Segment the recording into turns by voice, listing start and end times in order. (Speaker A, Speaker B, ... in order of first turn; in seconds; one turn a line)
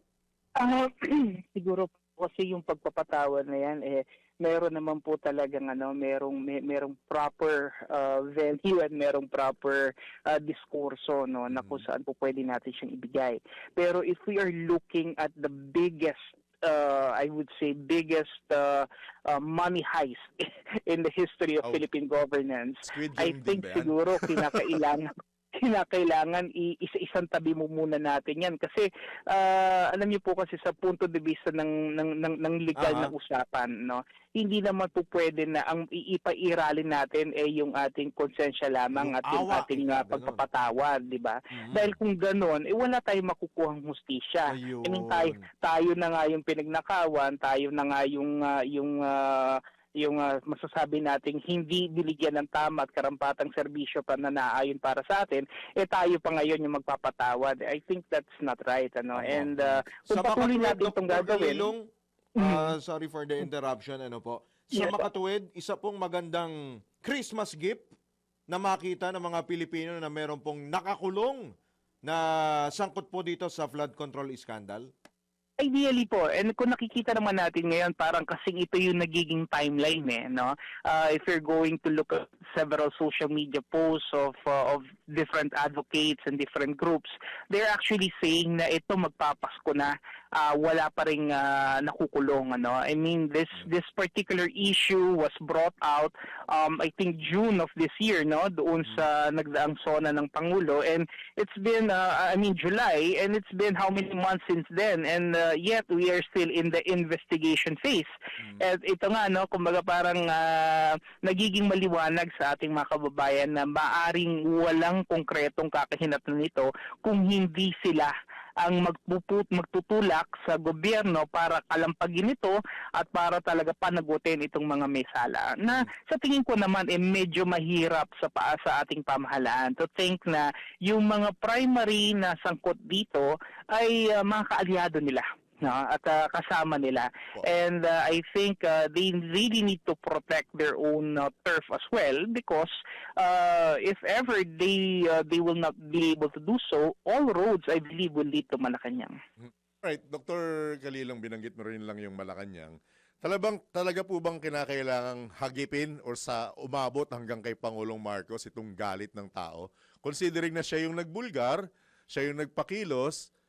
Speaker A: 0.6-61.7
Speaker B: 11.5-11.8
Speaker B: 22.9-24.8
Speaker C: 32.8-33.1
Speaker C: 38.9-40.4
Speaker C: 41.5-42.0
Speaker C: 44.5-45.5
Speaker C: 59.1-67.9
Speaker A: 62.4-62.8
Speaker A: 64.7-65.1
Speaker C: 68.5-71.5
Speaker C: 72.0-74.9
Speaker A: 75.6-149.2
Speaker B: 149.8-163.3